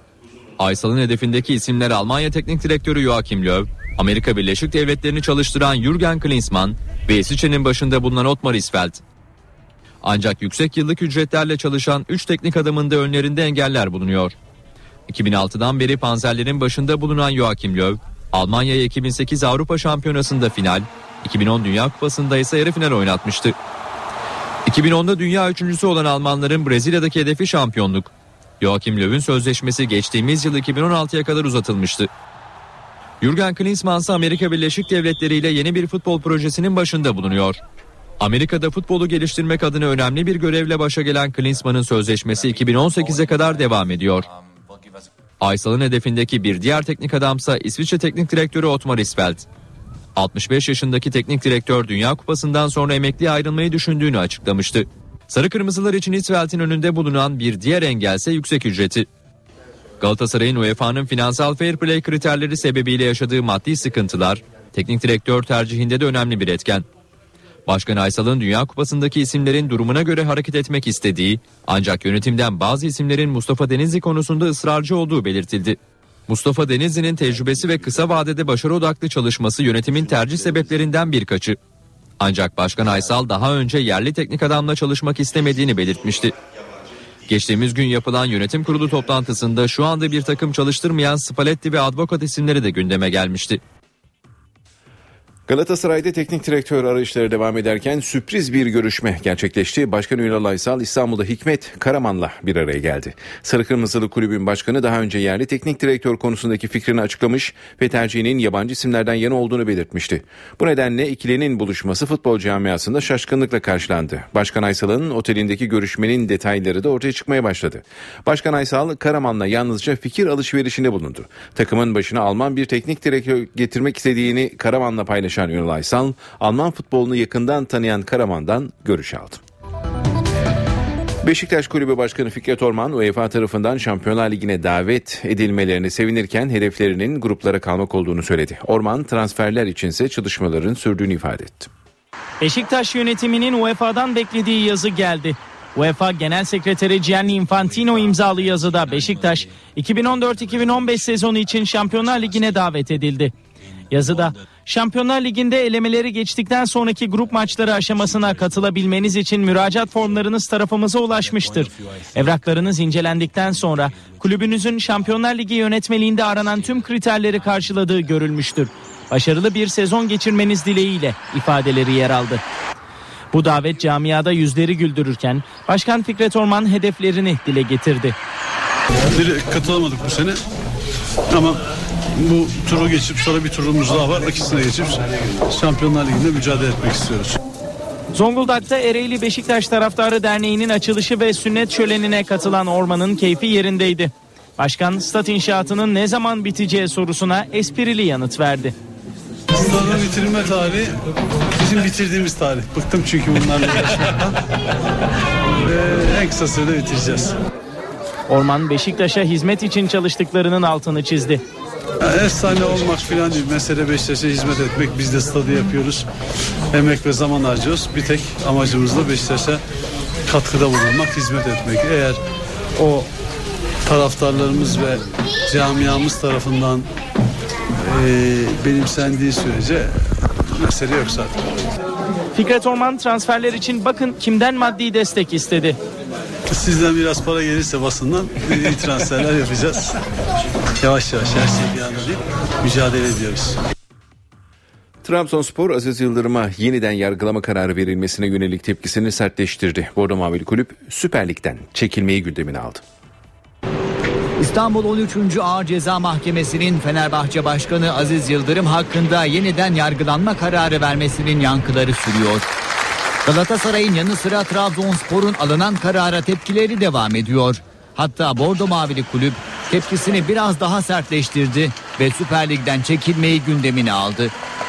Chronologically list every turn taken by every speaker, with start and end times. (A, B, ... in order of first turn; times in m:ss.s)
0:00.6-0:09.0 A
0:10.0-0:14.4 A
0:15.1-0:23.6 A
0:24.7-0:32.1 A
0:33.2-0:37.6 A
0:38.2-0:44.3 A
0:45.4-0:49.5 A
0:50.2-0:59.1 A
1:00.0-1:06.9 A
1:07.7-1:21.6 A
1:22.2-1:26.3 A
1:27.3-1:33.6 A
1:35.5-2:09.4 B
2:11.2-2:21.7 B
2:22.4-2:33.3 C
2:33.9-2:52.4 C
2:53.3-2:58.2 C
2:59.1-3:00.4 D
3:01.3-3:01.6 D
3:02.2-3:07.4 D
3:08.1-3:18.7 C
3:19.5-3:20.9 D
3:21.6-3:24.4 D
3:25.6-3:27.4 D
3:28.3-3:31.4 C
3:32.0-3:36.1 D
3:36.7-3:39.6 D
3:40.3-3:42.2 D
3:42.8-3:43.1 D
3:43.9-3:46.9 D
3:47.8-3:51.4 D
3:52.4-3:55.8 C
3:56.5-4:00.0 D
4:00.8-4:03.6 D
4:05.0-4:12.8 B
4:14.4-4:22.5 E
4:23.2-4:34.3 E